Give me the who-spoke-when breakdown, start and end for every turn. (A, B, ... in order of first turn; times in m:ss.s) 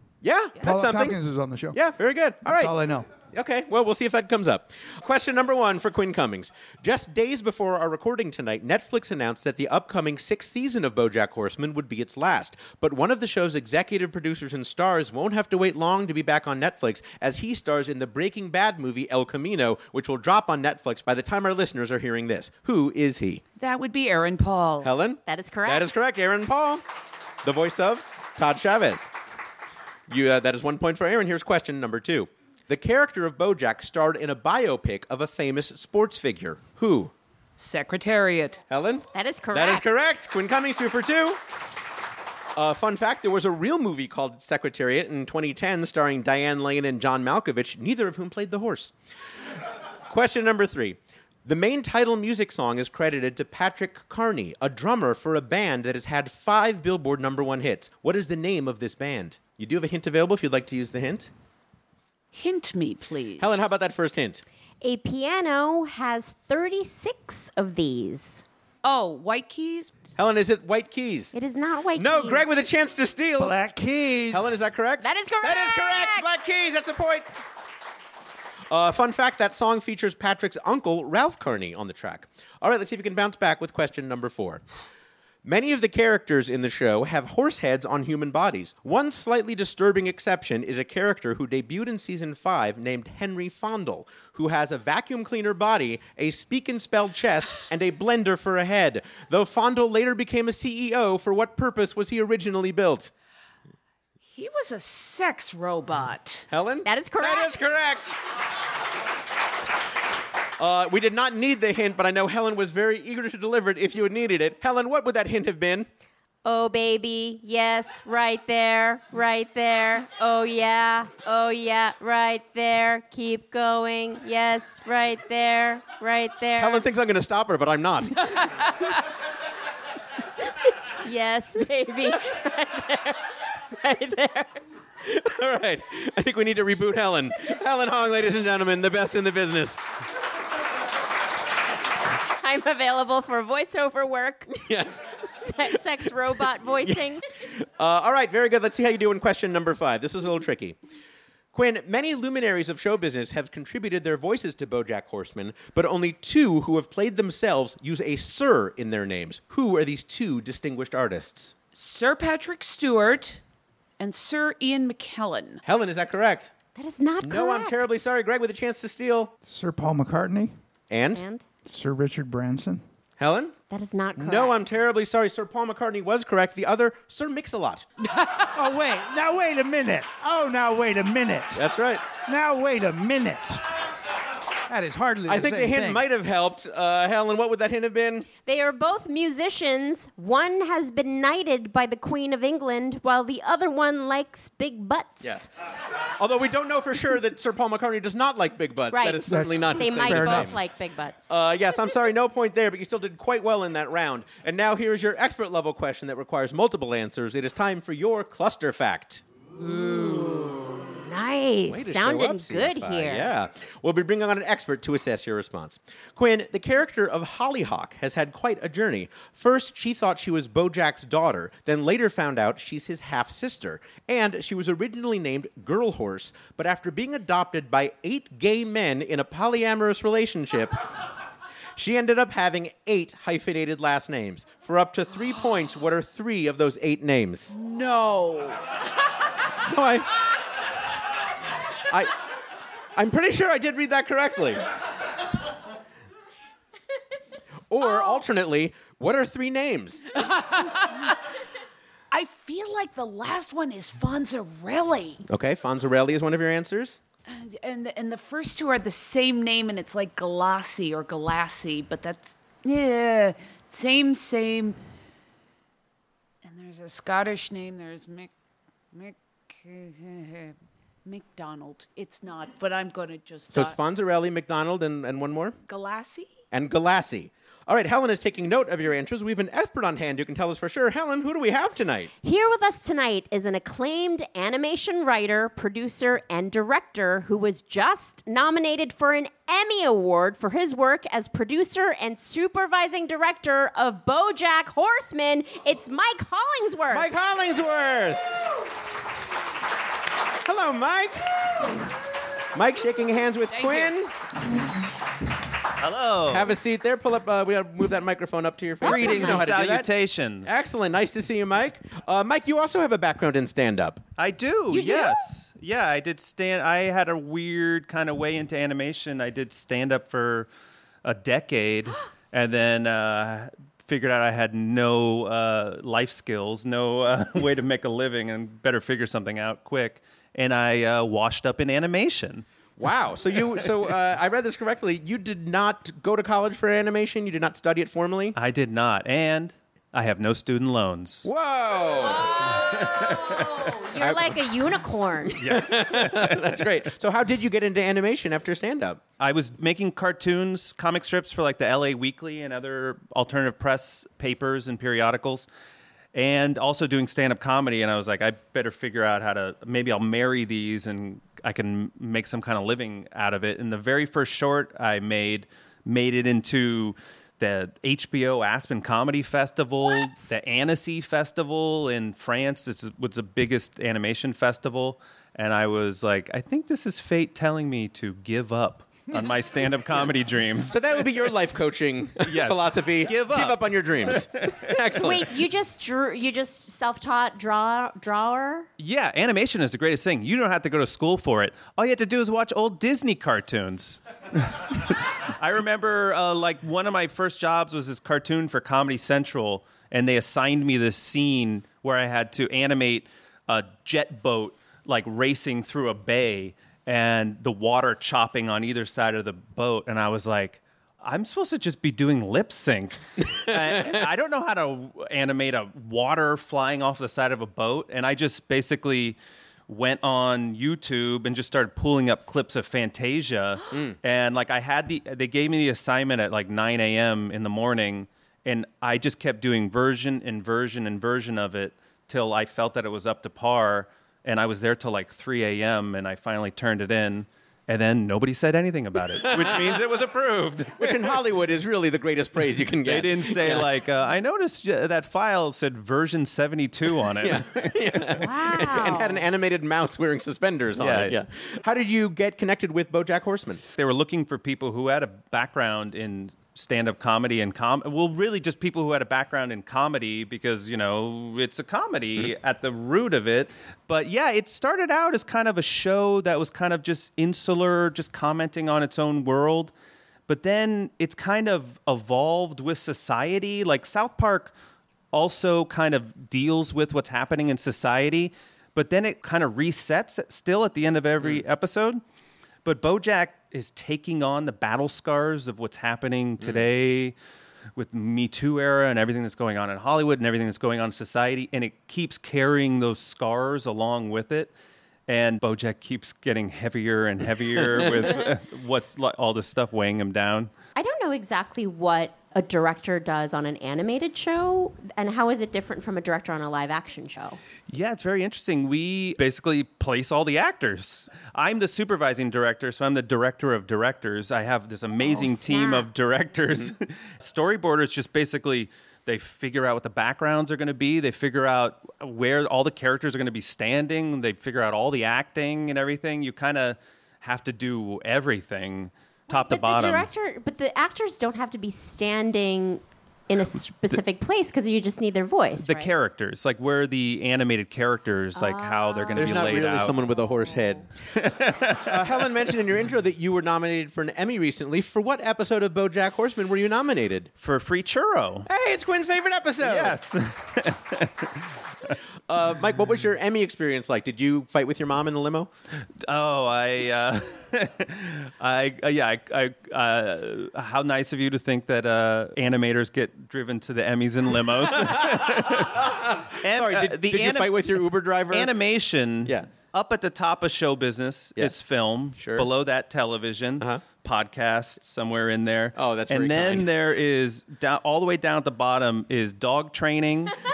0:00.2-0:01.2 A
0:00.6-0:01.8 B
0:01.7-0:02.8 A
0:02.4-0:03.1 B
0:03.3-0:23.4 A
0:23.6-0:24.9 C
0:24.8-0:26.8 A
0:25.3-0:26.0 D
0:27.4-0:29.1 A
0:30.1-0:37.1 A
0:37.6-0:38.6 C
0:38.7-0:41.4 A
0:39.1-0:39.9 D
0:42.6-0:48.9 A
0:50.1-1:01.3 A
1:02.3-1:03.7 C
1:03.4-1:04.4 A
1:04.8-1:08.4 D
1:08.8-1:09.9 C
1:10.2-1:11.3 A
1:11.3-1:12.5 D
1:12.0-1:13.6 A
1:13.4-1:14.6 B
1:14.3-1:17.3 A
1:15.0-1:16.3 D
1:18.7-1:24.6 A
1:25.4-1:43.1 A
1:44.3-1:46.5 C
1:46.5-1:48.2 A
1:46.8-1:47.8 D
1:50.6-1:55.9 A
1:56.4-2:06.8 D
2:06.6-2:08.4 A
2:11.0-2:14.6 D
2:15.0-2:19.8 A
2:22.4-2:24.7 D
2:24.6-2:25.0 A
2:25.4-2:27.2 D
2:27.6-2:30.8 A
2:31.5-2:41.5 A
2:41.7-2:43.4 C
2:44.0-2:45.6 C
2:45.6-2:46.5 A
2:46.8-2:47.8 D
2:47.2-2:49.3 A
2:49.5-2:50.5 B
2:50.9-2:51.2 A
2:51.2-2:51.4 D
2:51.7-2:52.8 B
2:53.2-2:53.6 A
2:53.7-2:54.8 D
2:54.2-2:57.9 A
2:58.4-3:01.6 B
3:01.6-3:02.0 A
3:02.3-3:03.6 B
3:04.7-3:06.0 B
3:05.3-3:08.3 A
3:08.4-3:15.5 D
3:15.2-3:15.5 A
3:16.2-3:20.6 A
3:18.9-3:21.3 D
3:19.3-3:20.6 B
3:21.3-3:29.2 A
3:29.6-3:33.3 D
3:31.7-3:50.8 A
3:51.8-3:57.5 A
3:57.5-3:58.7 C
3:59.6-4:00.1 A
4:01.9-4:02.2 A
4:03.0-4:04.6 A
4:07.7-4:10.0 A
4:07.8-4:08.2 C
4:10.2-4:11.1 C
4:12.1-4:15.2 C
4:15.3-4:17.0 A
4:17.3-4:24.8 C
4:26.4-4:28.3 C
4:28.9-4:33.8 C
4:33.5-4:35.6 A
4:35.7-4:36.3 C
4:36.5-4:42.1 A
4:42.2-4:57.1 D
4:56.9-4:58.2 A
5:00.4-5:01.3 A
5:02.6-5:04.1 A
5:03.5-5:03.9 C
5:05.8-5:06.5 E
5:06.3-5:09.9 A
5:08.8-5:10.6 E
5:08.8-5:09.4 D
5:10.4-5:14.0 A
5:14.2-5:20.5 E
5:14.7-5:15.3 D
5:21.0-5:32.4 E
5:32.8-5:38.4 A
5:38.4-5:41.3 E
5:41.2-5:42.5 A
5:42.1-5:45.4 D
5:42.8-5:43.4 E
5:44.0-5:44.4 A
5:45.4-5:46.6 E
5:45.4-5:49.0 A
5:49.2-5:55.5 E
5:56.1-6:20.8 E
6:09.8-6:10.3 D
6:20.7-6:25.3 A
6:22.2-6:24.7 E
6:25.0-6:28.7 D
6:28.8-6:59.2 E
6:53.5-6:54.0 A
6:59.7-7:21.1 E
7:03.7-7:04.0 A
7:19.2-7:19.9 A
7:20.7-7:23.7 A
7:22.8-7:28.0 E
7:27.2-7:33.6 A
7:28.2-7:29.2 D
7:30.8-7:31.2 E
7:33.8-7:49.7 E
7:50.3-7:54.5 E
7:55.1-8:02.0 E
8:02.6-8:07.2 E
8:07.8-8:14.5 E
8:15.1-8:20.5 E
8:20.8-8:27.4 D
8:27.7-8:50.1 E
8:35.0-8:35.9 D
8:49.3-8:56.0 D
8:55.6-9:00.0 E
8:58.4-8:59.7 D
8:59.2-9:00.9 A
9:01.1-9:02.3 E
9:01.8-9:07.3 A
9:07.4-9:08.5 E
9:08.5-9:10.0 A
9:09.6-9:12.0 E
9:12.3-9:15.5 A
9:16.0-9:40.4 E
9:25.9-9:28.5 A
9:32.2-9:32.5 A
9:35.8-9:36.7 A